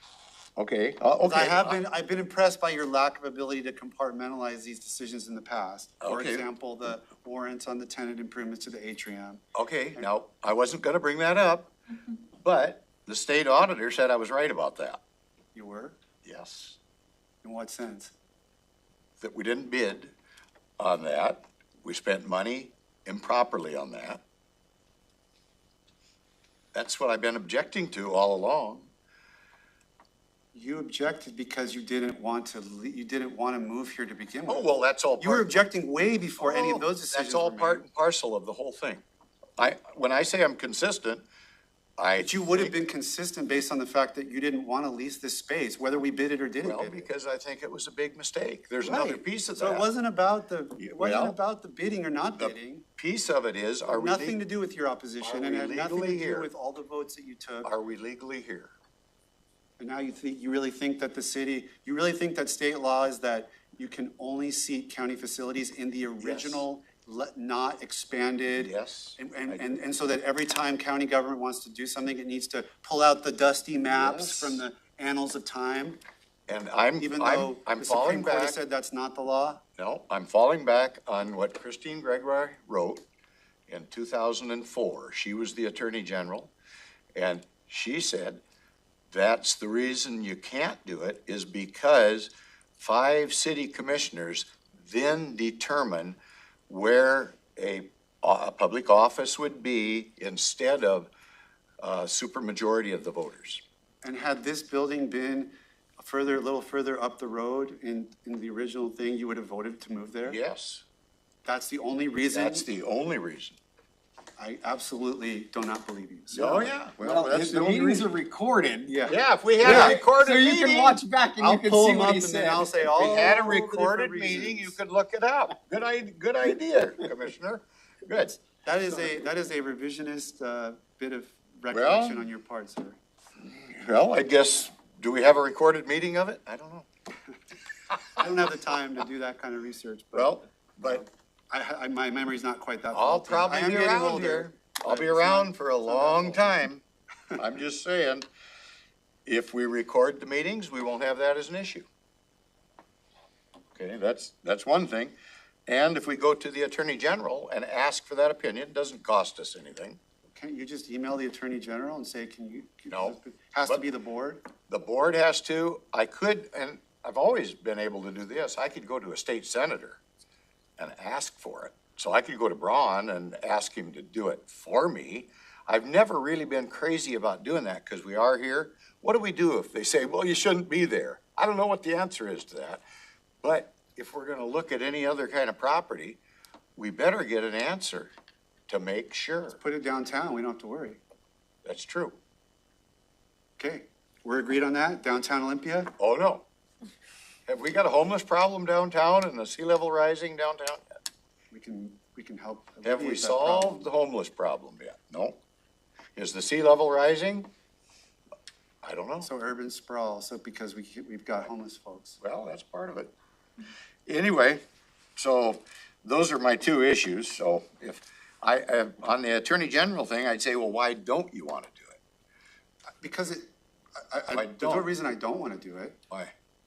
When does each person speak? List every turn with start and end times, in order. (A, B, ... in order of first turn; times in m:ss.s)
0:00.6-0:01.8 A
0:01.2-0:09.4 B
0:06.0-0:06.4 A
0:09.5-0:11.7 A
0:12.4-0:15.0 A
0:15.5-0:16.0 B
0:16.2-0:16.8 A
0:17.4-0:18.1 B
0:19.2-0:20.1 A
0:20.8-0:24.2 A
0:26.7-0:28.9 A
0:30.5-0:37.8 B
0:34.5-0:35.6 A
0:36.4-0:39.0 A
0:39.6-0:41.2 A
0:42.0-0:42.8 A
0:42.2-0:47.1 B
0:46.6-0:49.9 A
0:48.8-0:52.8 B
0:50.8-0:51.4 A
0:52.4-0:54.4 A
0:53.9-0:57.7 B
0:55.2-0:56.5 A
0:57.6-0:58.7 A
0:59.8-1:16.0 B
1:06.2-1:06.6 A
1:08.5-1:09.8 A
1:13.9-1:14.6 A
1:16.5-1:18.6 A
1:17.0-1:19.6 B
1:19.8-1:23.0 A
1:23.7-1:26.5 A
1:27.2-1:28.4 A
1:29.1-1:36.2 A
1:36.7-1:41.1 A
1:41.8-1:43.6 A
1:44.0-1:50.4 B
1:50.2-1:50.8 A
1:51.4-1:52.7 B
1:52.3-1:53.6 A
1:54.4-1:56.7 B
1:56.3-1:58.1 A
1:57.0-1:59.0 C
1:58.9-2:00.0 B
1:59.1-2:01.0 A
1:59.6-2:03.4 C
2:01.4-2:04.8 B
2:03.0-2:08.4 A
2:08.6-2:13.0 B
2:11.7-2:12.2 A
2:13.4-2:16.9 A
2:18.1-2:26.6 B
2:20.1-2:21.0 A
2:22.9-2:26.8 A
2:27.4-2:28.2 A
2:29.2-2:31.8 A
2:33.7-2:35.1 A
2:35.7-2:40.0 A
2:40.3-2:44.4 B
2:42.9-2:43.8 A
2:44.7-2:50.0 A
2:50.8-3:02.8 A
3:03.4-3:06.2 A
3:06.8-3:08.1 A
3:08.7-3:09.6 A
3:09.6-3:11.0 B
3:11.6-3:12.2 A
3:13.6-3:15.9 B
3:16.0-3:16.5 A
3:17.5-3:20.8 A
3:21.5-3:23.9 B
3:22.8-3:25.4 A
3:26.2-3:27.5 A
3:28.8-3:29.3 A
3:29.2-3:32.2 B
3:32.2-3:33.1 A
3:34.0-3:34.6 A
3:35.2-3:42.0 A
3:43.0-3:43.5 B
3:44.1-3:46.0 B
3:44.3-3:44.9 A